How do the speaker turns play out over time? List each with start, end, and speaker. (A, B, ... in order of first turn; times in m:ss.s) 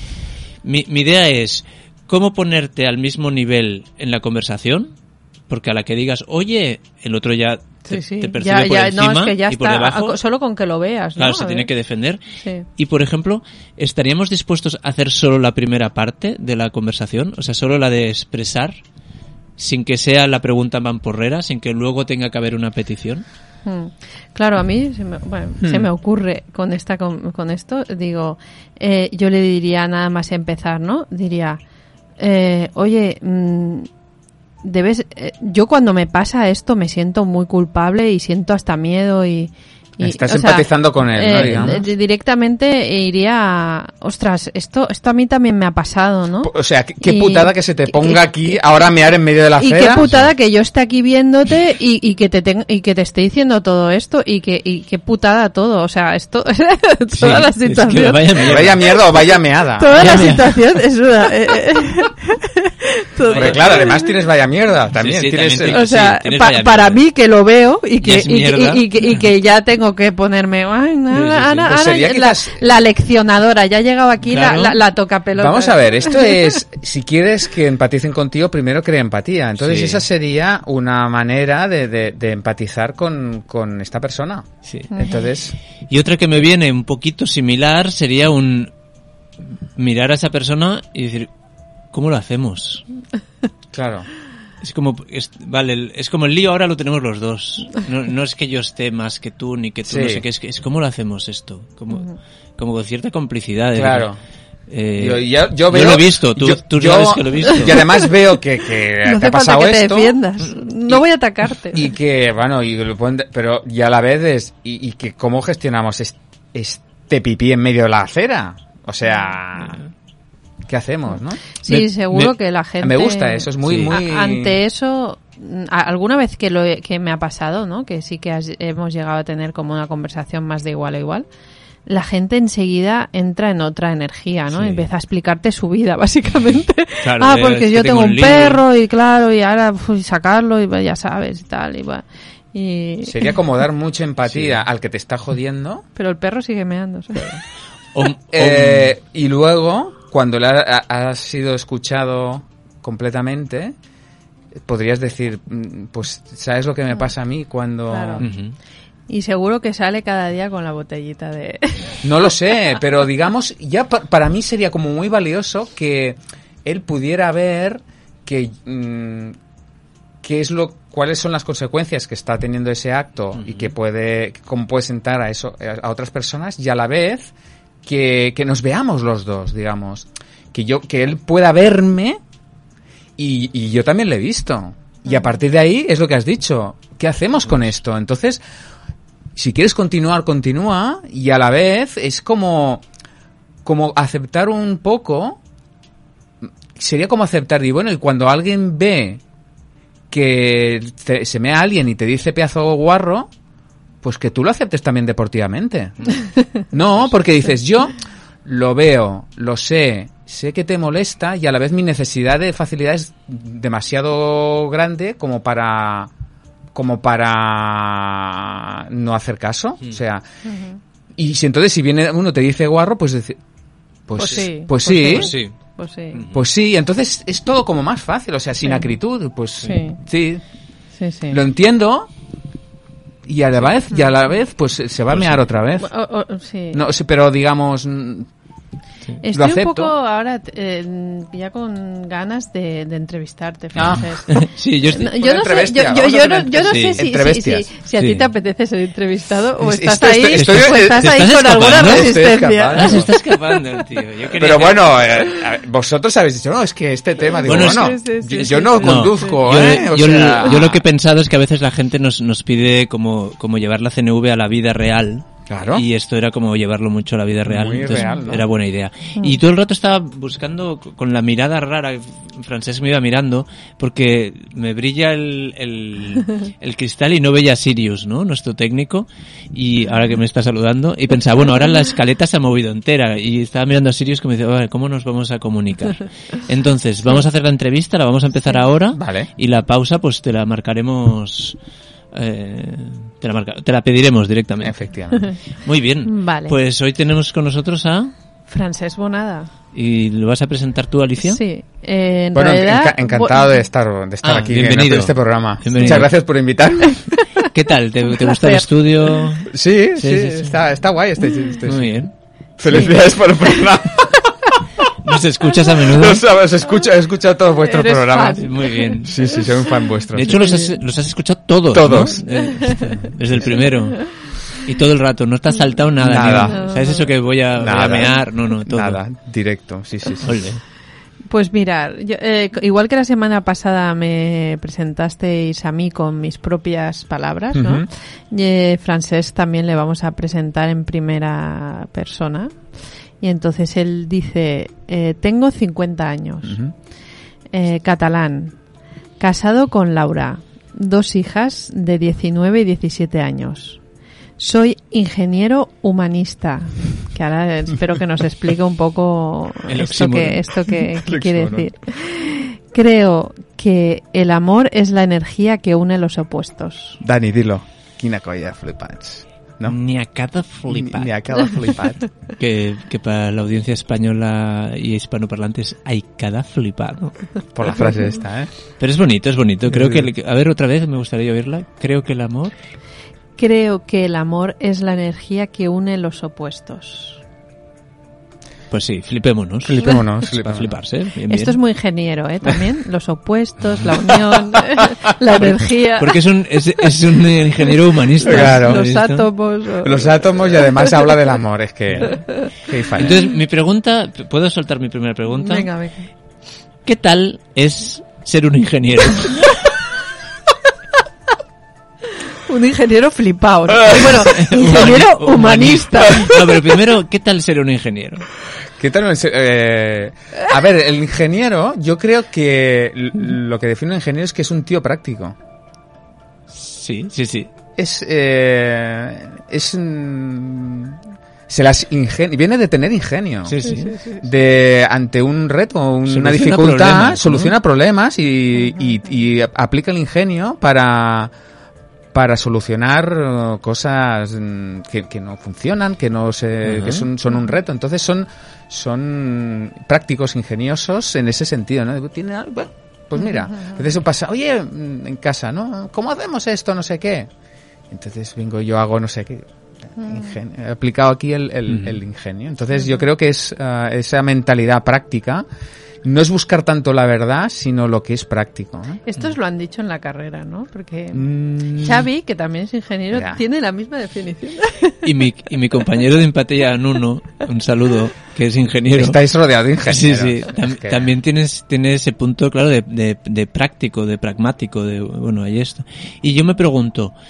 0:00.6-0:04.9 A
0:05.5-0:10.2 A
0:07.9-0:11.7 B
0:11.2-0:12.2 A
0:12.8-0:18.8 A
0:19.6-0:23.2 A
0:23.6-0:31.6 B
0:25.6-0:25.9 C
0:32.2-0:33.9 B
0:34.6-0:48.5 B
0:40.0-0:41.8 C
0:41.3-0:41.8 A
0:46.4-0:50.1 C
0:49.6-0:58.4 B
0:57.2-0:59.0 A
0:58.4-1:00.3 C
0:59.8-1:04.1 B
0:59.9-1:00.6 A
1:03.2-1:03.9 A
1:03.3-1:05.8 C
1:04.9-1:07.0 A
1:05.7-1:16.5 B
1:08.0-1:09.2 A
1:11.1-1:11.7 A
1:11.6-1:12.6 C
1:14.2-1:14.8 A
1:15.4-1:25.6 C
1:19.6-1:20.0 A
1:25.9-1:28.7 A
1:29.4-1:31.3 A
1:31.9-1:32.8 A
1:33.7-1:34.1 C
1:34.6-1:44.1 A
1:39.8-1:40.2 C
1:41.9-1:42.2 B
1:43.7-1:44.2 C
1:44.7-1:47.8 A
1:45.0-1:50.2 C
1:47.4-1:47.8 B
1:49.0-1:51.9 B
1:51.7-1:59.8 C
2:00.7-2:01.4 C
2:01.6-2:11.2 B
2:01.7-2:02.3 A
2:02.8-2:04.6 C
2:03.6-2:04.0 A
2:11.8-2:23.3 B
2:14.5-2:14.9 A
2:17.0-2:18.6 A
2:23.0-2:25.8 C
2:26.0-2:27.4 B
2:27.9-2:28.9 A
2:28.3-2:33.7 C
2:34.6-2:38.2 C
2:37.9-2:38.3 B
2:38.2-2:38.6 A
2:39.1-2:42.1 B
2:42.0-2:49.4 C
2:50.2-2:57.3 C
2:53.4-2:53.7 A
2:57.8-3:02.2 C
3:03.2-3:08.4 C
3:09.4-3:12.8 C
3:13.6-3:15.4 C
3:16.7-3:19.2 C
3:20.1-3:23.3 C
3:24.0-3:36.1 C
3:36.7-3:40.2 C
3:40.4-3:40.8 B
3:41.2-3:43.4 C
3:44.1-3:45.4 C
3:44.2-3:46.2 B
3:45.0-3:45.5 A
3:46.1-3:46.4 A
3:46.3-3:50.4 C
3:49.6-3:50.0 B
3:51.0-3:51.4 B
3:51.3-3:52.1 C
3:53.2-3:55.9 C
3:55.1-3:55.4 A
3:55.8-3:56.8 B
3:56.7-3:58.3 C
3:59.2-4:13.6 B
3:59.3-3:59.9 C
4:03.8-4:04.2 C
4:03.8-4:05.1 A
4:05.0-4:07.7 C
4:06.6-4:07.0 A
4:08.0-4:08.3 A
4:09.6-4:13.1 C
4:10.3-4:15.1 A
4:14.4-4:20.8 C
4:17.3-4:19.8 B
4:17.4-4:51.6 A
4:25.5-4:25.8 C
4:27.4-4:28.4 C
4:48.9-4:49.3 C
4:52.1-4:54.8 A
4:54.6-4:55.3 C
4:55.6-4:58.1 A
4:56.0-4:56.5 B
4:58.5-4:59.5 B
4:59.7-5:01.4 A
5:01.2-5:03.6 B
5:02.3-5:07.0 C
5:04.2-5:06.2 A
5:05.8-5:06.1 B
5:06.8-5:07.4 B
5:07.5-5:10.6 A
5:08.2-5:09.2 B
5:09.5-5:12.0 C
5:11.6-5:12.1 A
5:12.6-5:14.5 C
5:12.7-5:13.7 B
5:15.0-5:16.2 A
5:15.8-5:20.4 C
5:17.6-5:20.8 B
5:18.4-5:19.5 A
5:20.1-5:29.0 A
5:21.7-5:22.2 C
5:22.6-5:22.9 B
5:26.0-5:26.6 C
5:26.3-5:27.1 B
5:27.6-5:30.4 C
5:30.2-5:30.6 A
5:31.3-5:42.6 B
5:37.5-5:37.9 C
5:43.2-5:46.6 B
5:46.4-5:46.7 C
5:47.5-5:48.6 B
5:49.2-5:53.8 B
5:54.4-6:07.0 B
5:59.7-6:00.8 A
6:01.0-6:01.7 C
6:07.0-6:09.8 C
6:09.6-6:11.1 A
6:10.7-6:12.1 C
6:12.4-6:17.9 A
6:17.5-6:18.5 C
6:18.8-6:22.6 A
6:19.7-6:20.1 C
6:23.4-6:27.2 B
6:28.7-6:31.6 A
6:29.6-6:30.8 C
6:31.3-6:36.2 B
6:36.0-6:39.2 A
6:38.2-6:38.8 C
6:38.2-6:40.9 B
6:39.8-6:43.2 C
6:42.1-6:42.4 B
6:43.0-6:45.7 A
6:45.4-6:46.1 B
6:46.8-6:49.6 A
6:52.3-6:56.4 B
6:53.7-6:54.2 C
6:53.9-6:58.3 A
6:56.1-6:56.4 C
6:58.8-7:05.4 C
7:06.5-7:07.5 A
7:07.8-7:21.3 C
7:13.4-7:14.0 A
7:13.6-7:14.2 B
7:16.0-7:17.5 A
7:22.1-7:37.3 C
7:26.6-7:27.1 A
7:33.2-7:33.8 B
7:37.9-7:45.4 C
7:40.0-7:40.3 B
7:41.7-7:42.0 A
7:46.0-7:49.0 C
7:49.0-7:55.0 B
7:51.1-7:52.1 C
7:53.1-7:53.4 C
7:55.0-7:59.2 A
7:58.9-8:01.2 C
7:59.8-8:07.1 A